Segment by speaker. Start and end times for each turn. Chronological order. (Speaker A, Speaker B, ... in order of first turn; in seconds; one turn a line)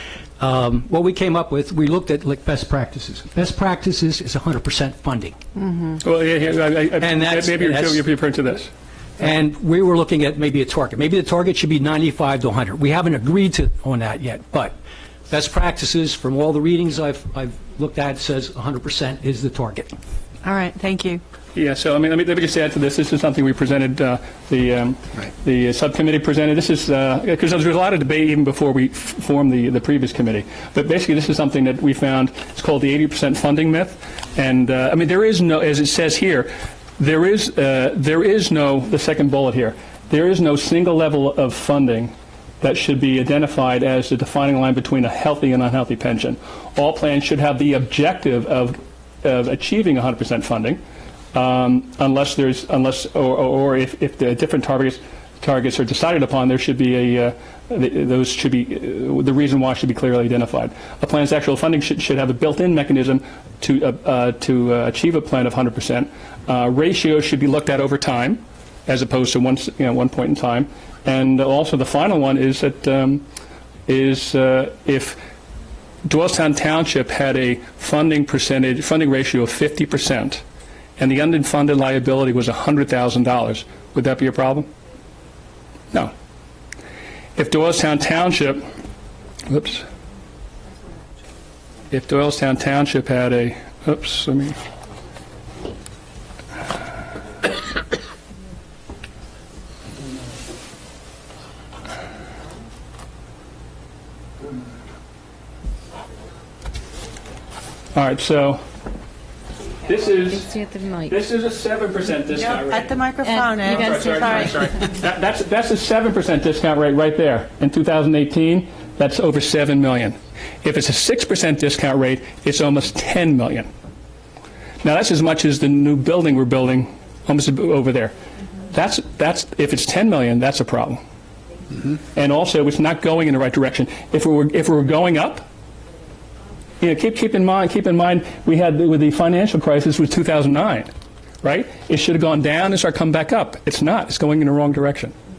Speaker A: 0.4-5.3
Speaker B: 5.6-6.0
Speaker C: 6.0-8.7
Speaker A: 7.0-8.0
Speaker A: 9.2-14.8
Speaker A: 15.3-19.9
Speaker B: 20.4-21.2
Speaker C: 21.6-50.8
Speaker C: 51.3-73.2
Speaker C: 73.9-75.2
Speaker C: 76.0-80.4
Speaker C: 81.0-84.7
Speaker C: 87.4-88.6
Speaker C: 89.5-89.8
Speaker C: 91.9-94.6
Speaker C: 108.0-108.6
Speaker C: 109.9-110.5
Speaker D: 110.3-111.1
Speaker C: 111.1-113.0
Speaker B: 112.3-114.6
Speaker D: 113.2-114.4
Speaker C: 113.5-123.7
Speaker C: 124.8-128.1
Speaker C: 128.7-131.0
Speaker C: 132.1-135.5
Speaker C: 136.8-140.9
Speaker C: 141.4-145.1